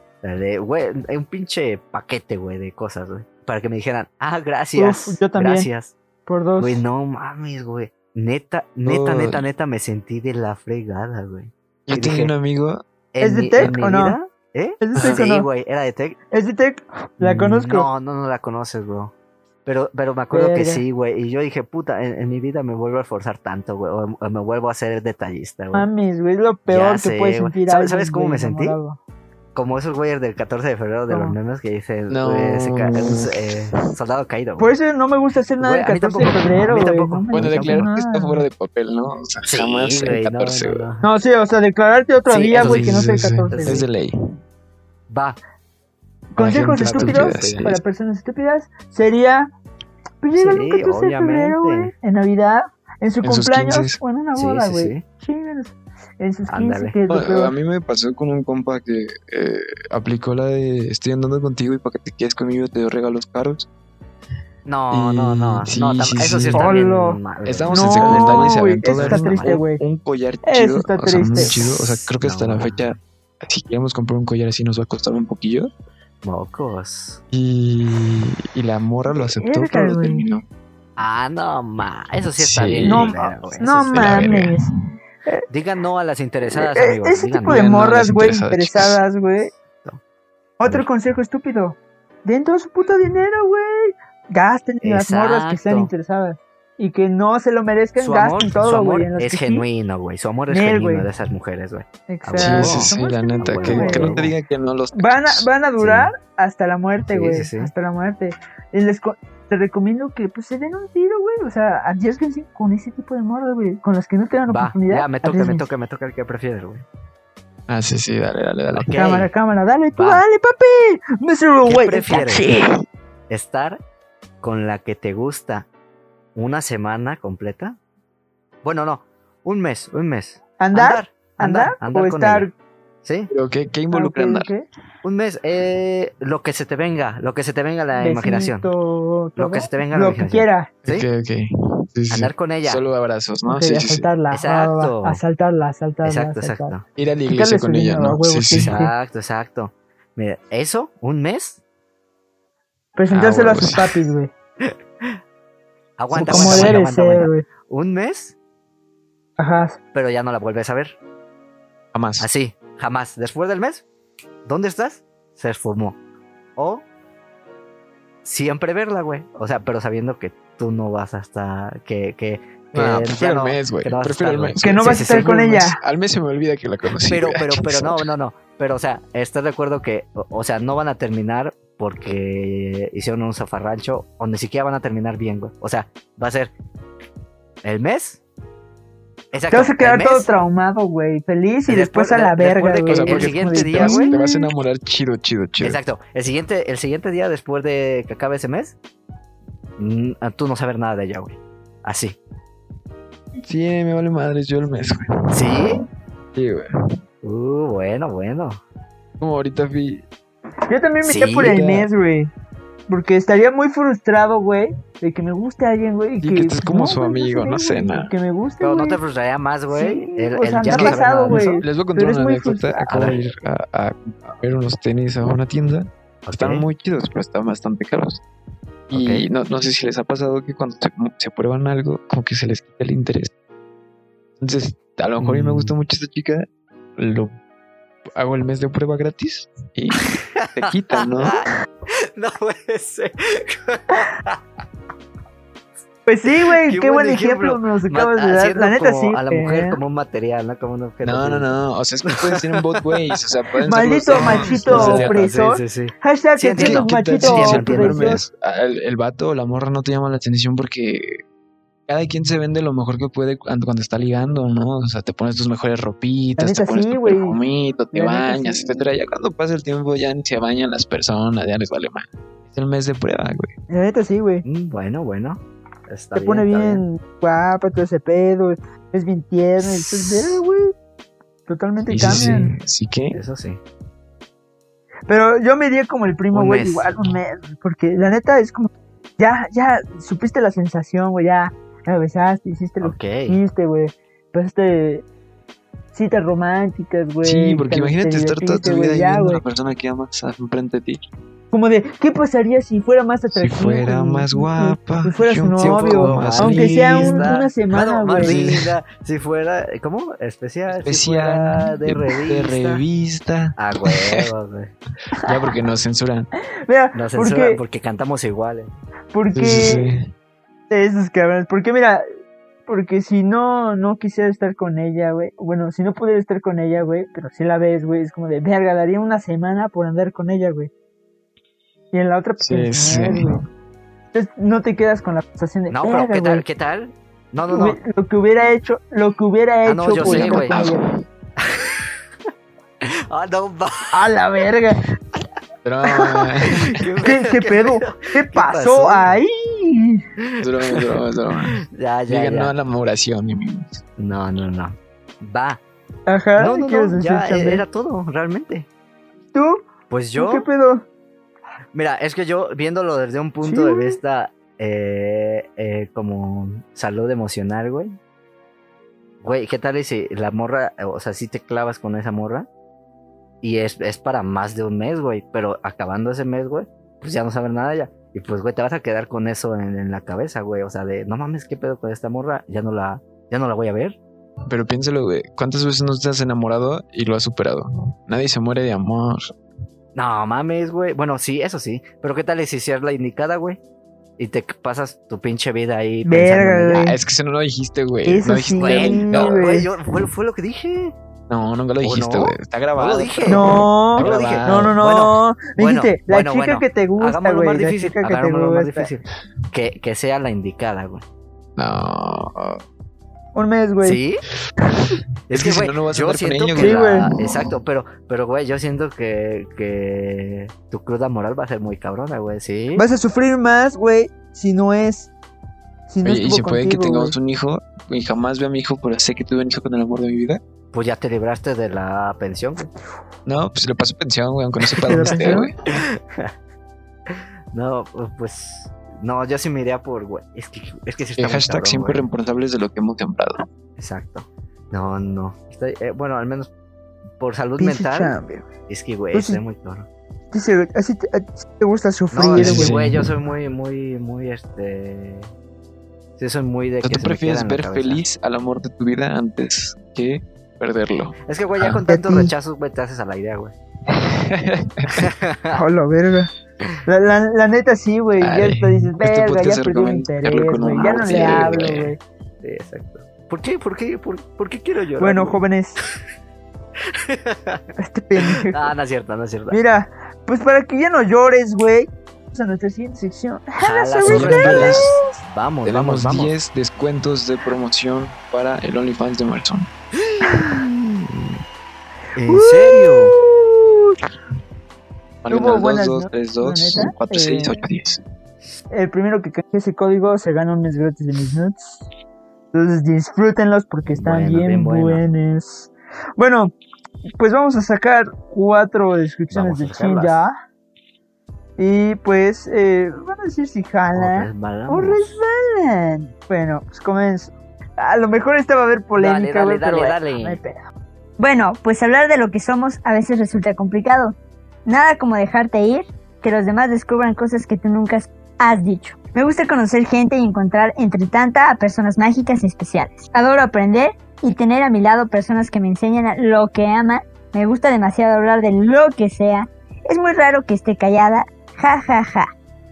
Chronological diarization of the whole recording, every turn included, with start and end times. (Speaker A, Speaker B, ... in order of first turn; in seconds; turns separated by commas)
Speaker A: 0.2-5.9, Speaker B: 4.8-5.7, Speaker B: 6.2-6.8, Speaker A: 6.6-12.3, Speaker C: 8.8-9.4, Speaker C: 11.9-12.8, Speaker A: 13.1-16.2, Speaker B: 13.2-14.2, Speaker C: 13.6-13.8, Speaker B: 14.8-15.5, Speaker B: 16.3-17.9, Speaker A: 17.2-19.1, Speaker A: 19.6-25.9, Speaker B: 20.3-20.8, Speaker B: 25.7-29.0, Speaker A: 26.7-28.8, Speaker A: 29.5-34.7, Speaker B: 31.1-31.4, Speaker C: 32.1-33.7, Speaker B: 34.6-38.5, Speaker A: 35.6-37.9, Speaker C: 37.3-40.8, Speaker A: 39.5-41.0, Speaker B: 41.0-43.8, Speaker A: 42.3-43.9, Speaker C: 42.6-44.1, Speaker A: 45.1-45.4, Speaker B: 46.3-49.5, Speaker C: 46.4-47.8, Speaker A: 46.4-47.7, Speaker B: 50.2-57.5, Speaker A: 50.3-51.9, Speaker C: 53.2-54.0, Speaker A: 54.3-55.0, Speaker A: 56.5-57.0, Speaker C: 57.1-63.7, Speaker A: 64.7-69.6, Speaker C: 64.9-66.7, Speaker B: 66.5-67.2, Speaker C: 67.4-75.7, Speaker B: 67.7-69.8, Speaker B: 70.5-71.6, Speaker A: 71.4-72.8, Speaker A: 76.2-77.2, Speaker C: 77.3-80.4, Speaker B: 79.1-80.2, Speaker A: 81.0-83.9, Speaker C: 82.4-83.1, Speaker B: 82.8-84.7, Speaker C: 83.8-84.6, Speaker A: 85.5-87.7, Speaker B: 86.5-89.5, Speaker C: 87.5-89.0, Speaker A: 89.5-90.0, Speaker B: 90.6-99.7, Speaker A: 94.8-95.9, Speaker A: 98.0-104.3, Speaker B: 100.5-101.1, Speaker B: 102.1-104.2, Speaker C: 102.3-105.5, Speaker B: 104.9-115.6, Speaker A: 105.8-106.1, Speaker A: 107.1-107.7, Speaker A: 114.5-116.8, Speaker C: 117.7-118.9, Speaker A: 118.7-119.3, Speaker B: 118.9-122.7, Speaker A: 119.9-120.2, Speaker A: 121.6-122.5, Speaker A: 123.3-123.8, Speaker A: 124.4-125.7, Speaker A: 126.3-127.8, Speaker A: 128.6-132.5, Speaker B: 130.6-132.5, Speaker A: 133.0-133.3, Speaker C: 133.3-134.5, Speaker B: 133.9-134.6, Speaker A: 135.0-138.7, Speaker B: 137.9-140.7, Speaker A: 139.4-141.1, Speaker C: 140.8-144.1, Speaker A: 142.1-142.8, Speaker B: 143.5-146.7, Speaker A: 144.3-145.2, Speaker A: 146.0-146.8, Speaker C: 146.9-148.7, Speaker B: 147.3-148.9, Speaker A: 148.5-151.6, Speaker B: 152.9-154.3, Speaker C: 153.1-153.9, Speaker A: 154.6-155.2, Speaker A: 156.0-158.3, Speaker B: 156.1-157.4, Speaker C: 156.2-156.8, Speaker B: 159.4-159.8, Speaker A: 159.9-161.0, Speaker C: 161.9-162.3, Speaker A: 162.2-163.8, Speaker A: 164.4-166.0, Speaker A: 166.6-166.8, Speaker A: 168.2-175.3, Speaker C: 172.7-178.1, Speaker B: 174.6-175.8, Speaker A: 177.0-186.5, Speaker A: 187.6-188.2, Speaker A: 189.3-190.3, Speaker B: 189.5-194.4, Speaker A: 191.7-194.2, Speaker C: 192.9-195.8, Speaker A: 195.6-198.8, Speaker A: 199.8-202.2, Speaker C: 203.4-205.8, Speaker A: 205.3-205.8, Speaker C: 206.3-206.7, Speaker A: 207.2-208.6, Speaker C: 209.2-210.0, Speaker B: 210.7-212.3, Speaker A: 211.0-211.7, Speaker C: 211.5-211.9, Speaker B: 212.9-219.0, Speaker C: 216.2-218.1, Speaker A: 218.6-221.6, Speaker B: 219.7-223.1, Speaker C: 220.7-228.2, Speaker A: 222.9-223.2, Speaker A: 226.2-226.7, Speaker C: 228.9-233.3, Speaker A: 228.9-229.3, Speaker C: 234.4-236.4, Speaker A: 235.2-235.7, Speaker C: 237.0-237.3, Speaker C: 238.1-241.4, Speaker A: 240.3-244.4, Speaker B: 246.1-249.8, Speaker A: 246.2-253.2, Speaker C: 251.0-255.2, Speaker B: 253.7-258.2, Speaker A: 254.1-258.0, Speaker C: 256.6-261.2, Speaker C: 261.9-273.5, Speaker B: 266.4-267.4, Speaker B: 267.9-268.8, Speaker B: 273.7-274.4, Speaker A: 274.4-276.8, Speaker B: 276.1-280.7, Speaker A: 279.6-280.4, Speaker B: 281.5-282.5, Speaker C: 281.9-283.2, Speaker A: 283.1-283.6, Speaker B: 285.1-295.0, Speaker A: 286.3-286.9, Speaker A: 292.8-293.4, Speaker B: 295.9-299.4, Speaker C: 297.2-301.0, Speaker B: 301.5-308.4, Speaker C: 303.3-307.3, Speaker A: 305.6-312.8, Speaker C: 308.2-308.8, Speaker C: 310.7-314.3, Speaker A: 313.6-314.7, Speaker C: 315.2-316.3, Speaker B: 316.6-317.6, Speaker A: 316.9-318.7, Speaker B: 319.1-319.8, Speaker C: 319.3-320.1, Speaker B: 320.7-322.0, Speaker B: 322.7-330.7, Speaker B: 331.9-333.4, Speaker C: 332.4-333.4, Speaker B: 334.1-336.4, Speaker A: 335.7-337.8, Speaker B: 337.5-340.8, Speaker A: 339.6-340.7, Speaker C: 340.0-340.9, Speaker A: 341.4-341.9, Speaker A: 342.8-344.0, Speaker B: 343.9-344.8, Speaker C: 345.6-346.8, Speaker A: 346.5-349.1, Speaker B: 347.0-350.0, Speaker A: 350.2-351.0, Speaker C: 350.4-353.8, Speaker A: 351.5-352.5, Speaker A: 354.0-355.6, Speaker B: 356.1-357.6, Speaker A: 356.4-358.7, Speaker B: 359.3-360.8, Speaker A: 359.9-360.5, Speaker A: 361.7-368.0, Speaker B: 363.4-364.0, Speaker A: 369.2-372.5, Speaker A: 373.4-384.0, Speaker C: 384.5-389.3, Speaker A: 389.9-393.6, Speaker A: 394.2-396.9, Speaker B: 396.0-396.9, Speaker C: 396.8-399.5, Speaker B: 398.1-399.7, Speaker A: 398.6-400.9, Speaker C: 401.3-404.8, Speaker A: 401.8-411.0, Speaker B: 403.3-408.9, Speaker C: 411.6-412.6, Speaker B: 413.3-414.0, Speaker A: 413.8-414.2, Speaker A: 415.3-422.8, Speaker C: 415.3-417.5, Speaker B: 416.6-417.1, Speaker B: 422.8-425.1, Speaker B: 425.9-427.1, Speaker C: 426.0-430.4, Speaker A: 430.7-432.7, Speaker C: 433.2-435.5, Speaker A: 434.7-436.3, Speaker B: 434.9-435.5, Speaker A: 437.1-442.0, Speaker C: 441.1-443.4, Speaker A: 443.8-446.5, Speaker A: 447.2-448.1, Speaker B: 447.6-448.4, Speaker A: 448.7-449.9, Speaker B: 449.1-449.4, Speaker B: 450.3-452.8, Speaker A: 452.1-455.3, Speaker C: 452.4-453.1, Speaker A: 456.2-458.0, Speaker C: 456.8-461.8, Speaker A: 461.2-463.5, Speaker B: 461.9-462.3, Speaker C: 463.9-465.1, Speaker A: 464.9-465.6, Speaker B: 465.5-466.3, Speaker B: 466.8-472.0, Speaker C: 468.2-471.9, Speaker A: 470.8-471.7, Speaker A: 472.4-475.4, Speaker B: 475.0-475.8, Speaker A: 476.9-477.6, Speaker B: 477.8-478.7, Speaker A: 478.2-479.6, Speaker B: 479.5-485.1, Speaker A: 483.6-486.3, Speaker C: 484.0-485.0, Speaker C: 485.6-489.7, Speaker A: 490.0-491.4, Speaker A: 492.1-493.1, Speaker B: 492.3-493.9, Speaker C: 495.2-498.0, Speaker B: 495.3-497.6, Speaker B: 498.7-501.8, Speaker B: 502.5-506.5, Speaker A: 503.9-505.0, Speaker B: 507.1-510.3, Speaker A: 509.3-510.2, Speaker B: 511.6-520.6, Speaker A: 513.9-515.1, Speaker A: 519.0-520.4, Speaker D: 521.2-524.1, Speaker D: 524.6-542.3